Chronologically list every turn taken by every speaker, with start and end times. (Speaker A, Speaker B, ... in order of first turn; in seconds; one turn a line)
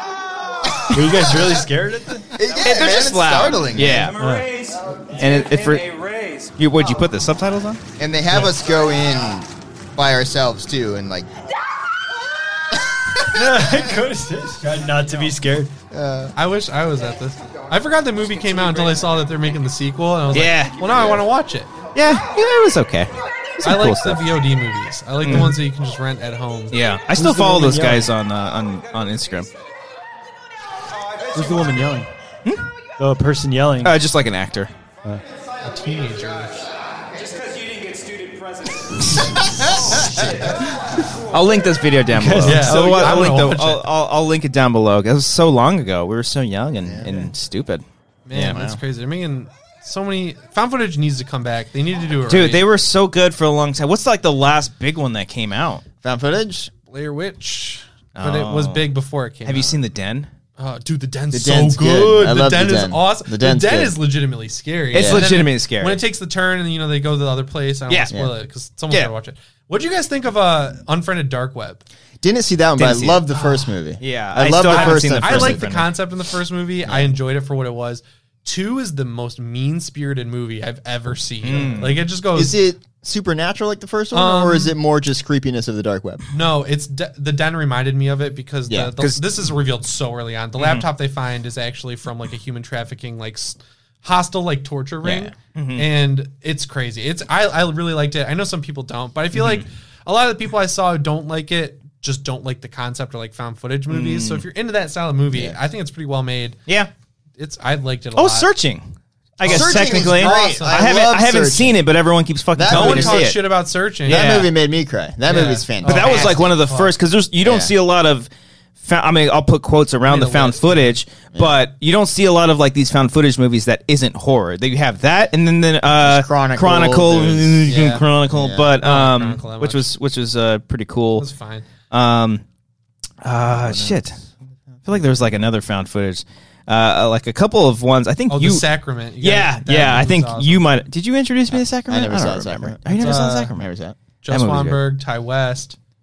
Speaker A: 0.9-2.3
Speaker B: 2.3-4.1
Speaker C: 2.6-4.2
Speaker D: 4.0-6.6
Speaker A: 4.2-4.5
Speaker C: 5.2-5.8
Speaker C: 6.6-7.8
Speaker B: 8.0-11.3
Speaker B: 13.2-13.7
Speaker A: 13.3-15.7
Speaker B: 15.9-16.3
Speaker E: 16.4-21.7
Speaker C: 20.3-20.8
Speaker B: 20.9-21.2
Speaker C: 21.9-24.4
Speaker E: 23.6-26.8
Speaker C: 25.2-25.6
Speaker C: 26.7-29.5
Speaker A: 27.1-28.1
Speaker A: 31.3-32.1
Speaker A: 33.0-34.0
Speaker C: 33.8-34.7
Speaker E: 35.6-36.6
Speaker D: 37.1-38.9
Speaker C: 39.0-47.8
Speaker B: 39.8-40.5
Speaker A: 42.1-42.8
Speaker E: 42.4-43.8
Speaker B: 46.8-47.3
Speaker E: 48.3-52.6
Speaker B: 48.3-48.8
Speaker C: 52.3-55.8
Speaker B: 56.0-56.7
Speaker E: 56.9-59.8
Speaker C: 58.2-58.9
Speaker C: 59.5-60.3
Speaker E: 60.6-71.8
Speaker B: 61.3-64.0
Speaker B: 64.9-65.3
Speaker C: 64.9-66.0
Speaker C: 67.9-68.2
Speaker B: 72.2-75.6
Speaker C: 72.8-73.2
Speaker E: 73.3-73.6
Speaker C: 74.0-75.9
Speaker E: 74.7-82.6
Speaker C: 81.4-82.0
Speaker B: 82.3-86.2
Speaker E: 84.1-84.7
Speaker E: 86.3-106.6
Speaker C: 90.6-90.8
Speaker C: 95.1-95.9
Speaker C: 99.4-99.6
Speaker C: 103.9-104.5
Speaker E: 107.4-108.5
Speaker C: 108.2-108.8
Speaker C: 109.4-113.4
Speaker B: 109.4-111.8
Speaker E: 109.5-110.8
Speaker B: 112.5-113.3
Speaker E: 112.7-114.2
Speaker B: 114.1-116.5
Speaker C: 114.1-114.5
Speaker E: 115.3-116.9
Speaker C: 115.8-118.3
Speaker B: 117.4-117.7
Speaker C: 118.8-131.3
Speaker E: 120.0-121.0
Speaker B: 126.0-128.7
Speaker E: 127.7-128.1
Speaker E: 128.8-129.9
Speaker E: 131.2-131.7
Speaker C: 131.9-132.4
Speaker C: 133.2-134.2
Speaker B: 133.6-134.0
Speaker C: 134.9-138.7
Speaker E: 138.3-140.7
Speaker C: 139.2-143.7
Speaker B: 141.5-144.0
Speaker E: 142.9-143.5
Speaker E: 144.2-145.8
Speaker C: 144.3-144.8